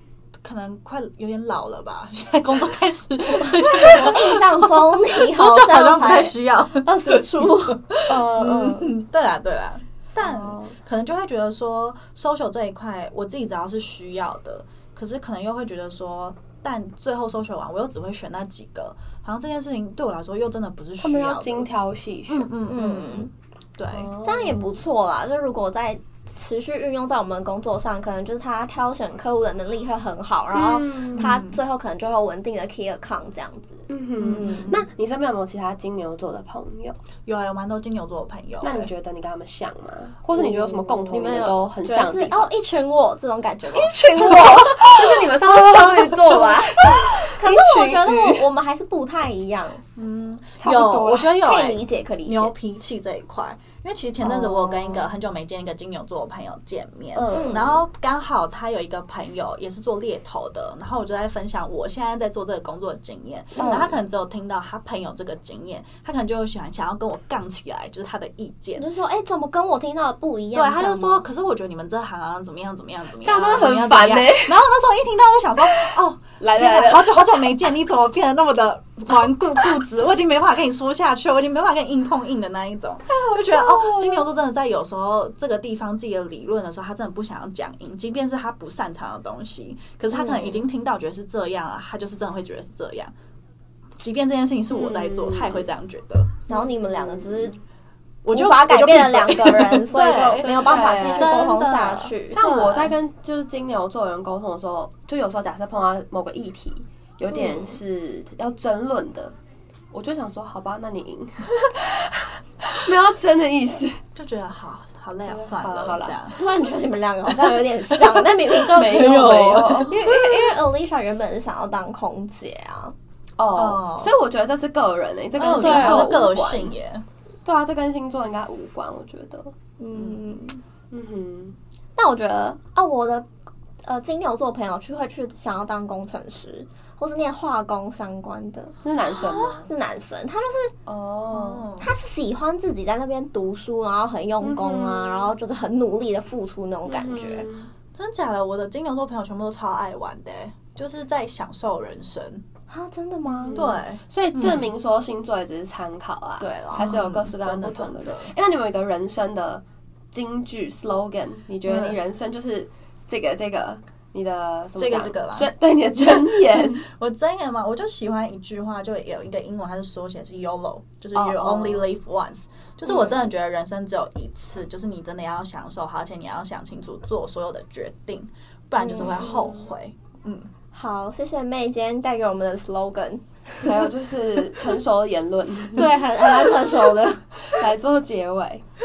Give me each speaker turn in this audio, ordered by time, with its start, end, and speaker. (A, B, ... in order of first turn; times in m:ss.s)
0:00.4-0:21.7 A
0:03.4-0:07.8 B
0:08.1-0:08.9 C
0:10.2-0:10.8 C
0:21.0-0:22.5 C
0:22.3-0:24.1 A
0:22.7-0:23.3 B
0:23.9-0:24.8 C
0:24.2-0:34.7 B
0:30.5-0:31.3 C
0:31.2-0:31.6 A
0:33.9-0:37.0 C
0:34.2-0:34.8 A
0:37.3-0:38.9 A
0:38.6-0:42.5 C
0:40.4-0:44.6 B
0:43.7-0:48.5 C
0:44.5-0:44.9 A
0:45.4-0:46.4 A
0:47.2-0:49.8 B
0:50.0-1:08.9 A
0:50.6-0:51.3 C
0:51.3-0:52.5 B
0:54.2-0:55.1 C
0:57.1-0:57.7 C
0:57.3-0:57.8 B
1:03.6-1:04.0 C
1:03.6-1:03.9 B
1:08.8-1:11.3 B
1:10.5-1:33.1 A
1:13.2-1:14.6 C
1:15.7-1:17.5 C
1:23.1-1:24.1 C
1:34.0-1:36.4 A
1:34.7-1:35.7 C
1:36.5-1:37.6 B
1:38.2-1:43.0 A
1:38.3-1:42.4 B
1:40.4-1:41.4 C
1:42.3-1:49.3 C
1:47.3-1:47.8 B
1:49.9-1:52.3 C
1:52.8-1:54.0 C
1:54.2-1:56.4 A
1:55.3-1:56.2 C
1:56.4-2:02.9 B
1:58.0-2:00.3 A
1:58.7-2:00.0 C
2:03.4-2:06.8 C
2:03.5-2:04.2 A
2:05.4-2:07.0 A
2:05.4-2:06.2 B
2:07.4-2:09.5 C
2:09.8-2:10.6 B
2:09.9-2:10.2 A
2:10.9-2:11.6 C
2:12.0-2:13.3 B
2:13.8-2:18.8 B
2:18.8-2:19.7 C
2:19.3-2:20.7 B
2:20.9-2:21.7 C
2:21.3-2:21.9 A
2:21.8-2:27.5 B
2:24.4-2:25.4 C
2:26.9-2:27.7 C
2:27.9-2:32.4 A
2:32.7-2:33.8 B
2:33.2-2:46.8 C
2:33.5-2:34.7 A
2:36.4-2:36.9 B
2:36.7-2:38.3 A
2:41.6-2:42.0 A
2:44.8-2:45.5 A
2:46.5-3:00.5 A
2:51.1-2:51.9 C
2:52.9-2:53.1 B
2:58.8-2:59.7 C
2:58.9-2:59.3 B
3:00.7-3:03.9 B
3:03.6-3:08.6 C
3:05.8-3:07.3 B